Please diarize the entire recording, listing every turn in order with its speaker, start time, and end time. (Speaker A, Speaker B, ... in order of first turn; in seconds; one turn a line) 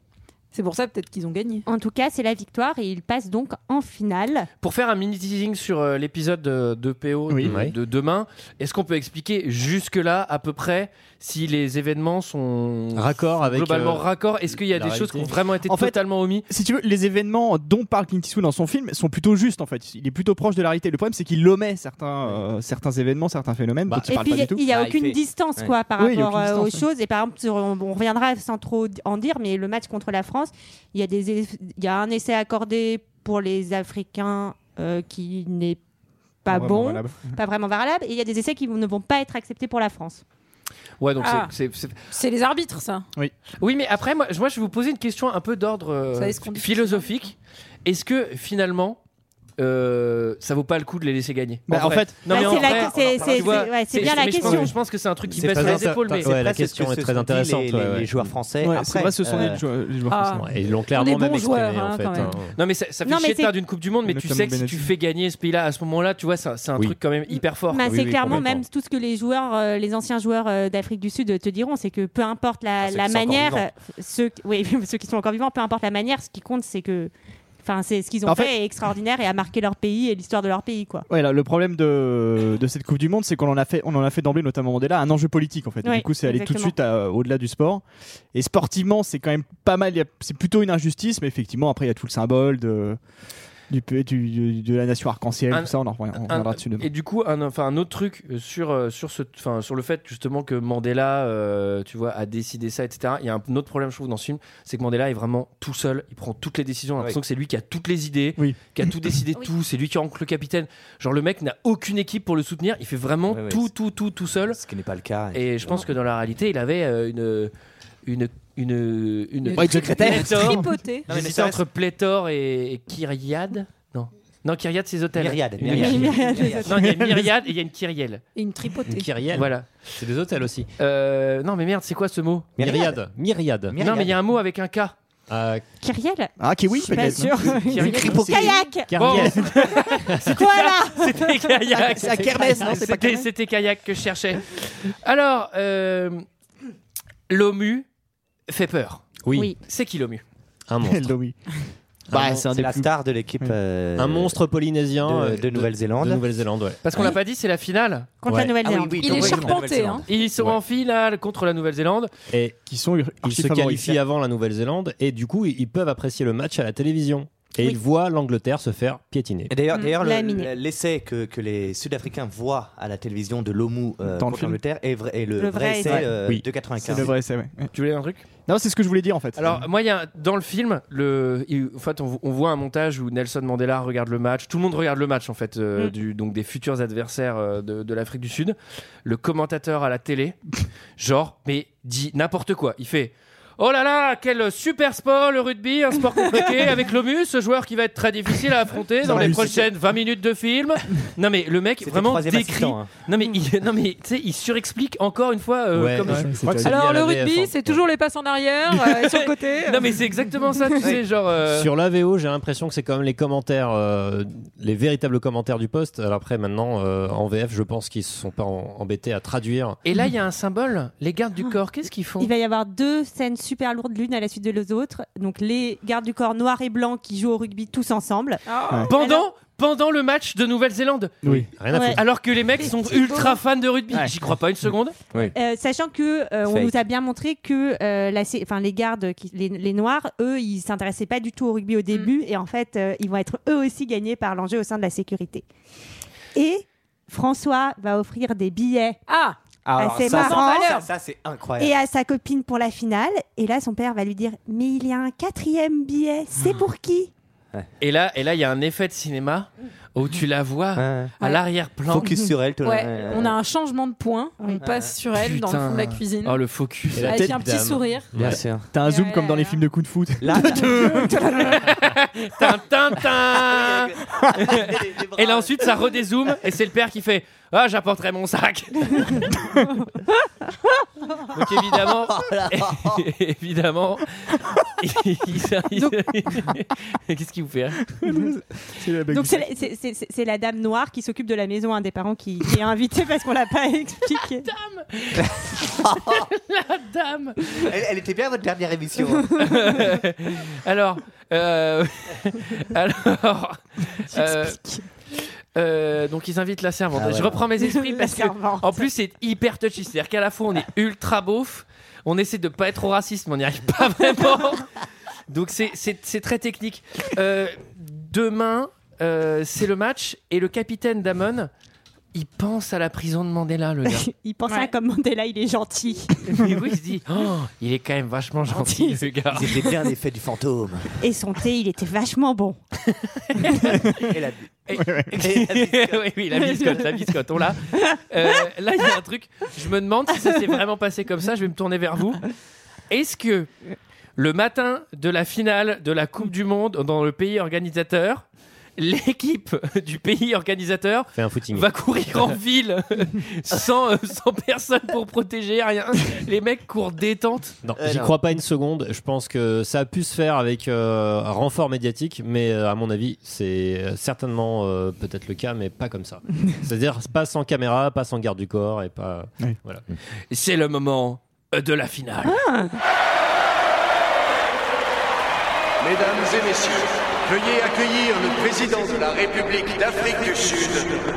Speaker A: 0.5-1.7
Speaker B: 1.7-4.5
Speaker C: 4.6-16.5
Speaker D: 7.3-7.5
Speaker E: 7.5-7.7
Speaker E: 13.0-15.3
Speaker D: 15.7-24.6
Speaker E: 23.9-24.1
Speaker B: 24.1-35.8
Speaker F: 24.6-25.8
Speaker D: 26.0-26.9
Speaker B: 36.5-40.2
Speaker D: 36.5-37.4
Speaker C: 41.0-42.0
Speaker A: 41.2-41.5
Speaker A: 42.1-43.1
Speaker C: 43.6-49.0
Speaker A: 46.1-47.1
Speaker C: 49.6-56.3
Speaker D: 51.7-52.6
Speaker B: 52.3-54.8
Speaker F: 52.4-53.6
Speaker D: 54.4-54.7
Speaker E: 55.4-58.3
Speaker F: 55.4-59.6
Speaker D: 58.6-60.4
Speaker A: 60.1-62.4
Speaker E: 60.3-62.6
Speaker C: 62.6-67.9
Speaker B: 63.0-63.5
Speaker D: 64.0-64.9
Speaker B: 67.7-77.1
Speaker E: 67.8-68.7
Speaker F: 72.8-73.7
Speaker B: 77.6-81.1
Speaker D: 78.3-78.5
Speaker D: 81.1-93.0
Speaker B: 85.8-86.8
Speaker D: 93.7-96.9
Speaker C: 95.5-114.6
Speaker D: 108.4-109.1
Speaker F: 113.3-113.7
Speaker F: 114.5-115.9
Speaker C: 115.3-117.5
Speaker C: 118.0-128.2
Speaker A: 119.5-121.1
Speaker D: 119.6-120.7
Speaker F: 120.3-121.6
Speaker F: 125.2-126.7
Speaker B: 125.7-126.7
Speaker D: 126.8-127.3
Speaker A: 128.3-129.1
Speaker E: 128.9-130.7
Speaker C: 129.3-129.8
Speaker C: 130.8-132.5
Speaker F: 132.6-133.0
Speaker E: 132.6-133.8
Speaker F: 133.7-134.2
Speaker C: 133.8-134.9
Speaker E: 135.3-135.6
Speaker B: 135.8-138.9
Speaker D: 136.4-139.6
Speaker C: 137.7-146.2
Speaker F: 137.8-138.6
Speaker E: 138.9-140.4
Speaker B: 140.2-141.5
Speaker D: 141.7-143.3
Speaker C: 147.3-147.9
Speaker C: 148.5-150.2
Speaker E: 149.2-149.5
Speaker E: 150.7-151.2
Speaker D: 150.8-152.9
Speaker E: 152.1-152.5
Speaker F: 152.4-154.4
Speaker E: 154.0-156.8
Speaker F: 155.0-156.2
Speaker C: 156.8-158.1
Speaker B: 158.2-159.5
Speaker E: 158.3-158.5
Speaker F: 158.6-160.1
Speaker A: 159.0-160.1
Speaker D: 159.2-159.6
Speaker C: 160.1-162.1
Speaker E: 162.3-162.6
Speaker D: 162.7-164.0
Speaker E: 163.2-169.6
Speaker F: 169.5-177.2
Speaker B: 169.7-170.5
Speaker D: 174.1-174.6
Speaker B: 175.4-176.2
Speaker D: 175.9-177.7
Speaker C: 177.7-178.2
Speaker D: 178.5-179.6
Speaker C: 179.4-190.4
Speaker C: 191.0-206.3
Speaker D: 199.0-199.7
Speaker F: 199.1-199.7
Speaker F: 201.8-202.9
Speaker E: 205.7-207.8
Speaker D: 206.1-206.8
Speaker A: 206.6-210.0
Speaker C: 209.1-211.7
Speaker E: 211.5-219.8
Speaker C: 219.8-222.3
Speaker B: 222.2-229.2
Speaker A: 228.5-228.9
Speaker C: 228.9-235.0
Speaker D: 231.2-231.5
Speaker E: 231.6-232.2
Speaker B: 231.7-232.0
Speaker A: 232.8-233.4
Speaker B: 235.3-245.4
Speaker F: 236.5-236.8
Speaker B: 246.3-249.0
Speaker A: 249.1-249.4
Speaker F: 249.7-251.8
Speaker B: 249.8-250.7
Speaker A: 250.0-250.9
Speaker B: 251.6-257.1
Speaker C: 257.8-262.1
Speaker F: 260.8-261.2
Speaker F: 261.9-263.4
Speaker A: 262.6-266.4
Speaker F: 264.6-265.0
Speaker C: 265.1-267.1
Speaker E: 267.0-268.4
Speaker A: 267.0-268.1
Speaker D: 267.1-267.4
Speaker F: 268.2-268.7
Speaker D: 268.7-271.4
Speaker B: 268.9-269.6
Speaker F: 270.2-271.1
Speaker C: 271.4-279.3
Speaker F: 273.3-275.8
Speaker C: 281.3-287.9
Speaker F: 282.1-283.0
Speaker D: 288.0-289.5
Speaker B: 289.1-294.5
Speaker C: 294.4-297.7
Speaker F: 295.2-296.3
Speaker F: 297.6-299.5
Speaker C: 299.4-304.6
Speaker B: 304.1-304.8
Speaker C: 305.6-314.7
Speaker F: 306.9-307.5
Speaker B: 307.6-308.9
Speaker C: 315.3-321.5
Speaker C: 322.1-324.1
Speaker B: 323.9-326.2
Speaker A: 324.5-324.7
Speaker C: 326.2-329.7
Speaker B: 328.6-328.9
Speaker F: 329.3-331.0
Speaker B: 331.0-332.6
Speaker C: 332.9-334.1
Speaker F: 333.9-334.5
Speaker C: 334.7-342.3
Speaker D: 334.7-335.1
Speaker F: 335.2-336.9
Speaker C: 342.9-343.5
Speaker C: 344.2-348.3
Speaker C: 348.8-357.6
Speaker E: 351.1-351.7
Speaker E: 357.6-369.9
Speaker F: 357.8-358.2
Speaker C: 370.3-372.4
Speaker B: 372.2-372.8
Speaker G: 375.8-380.9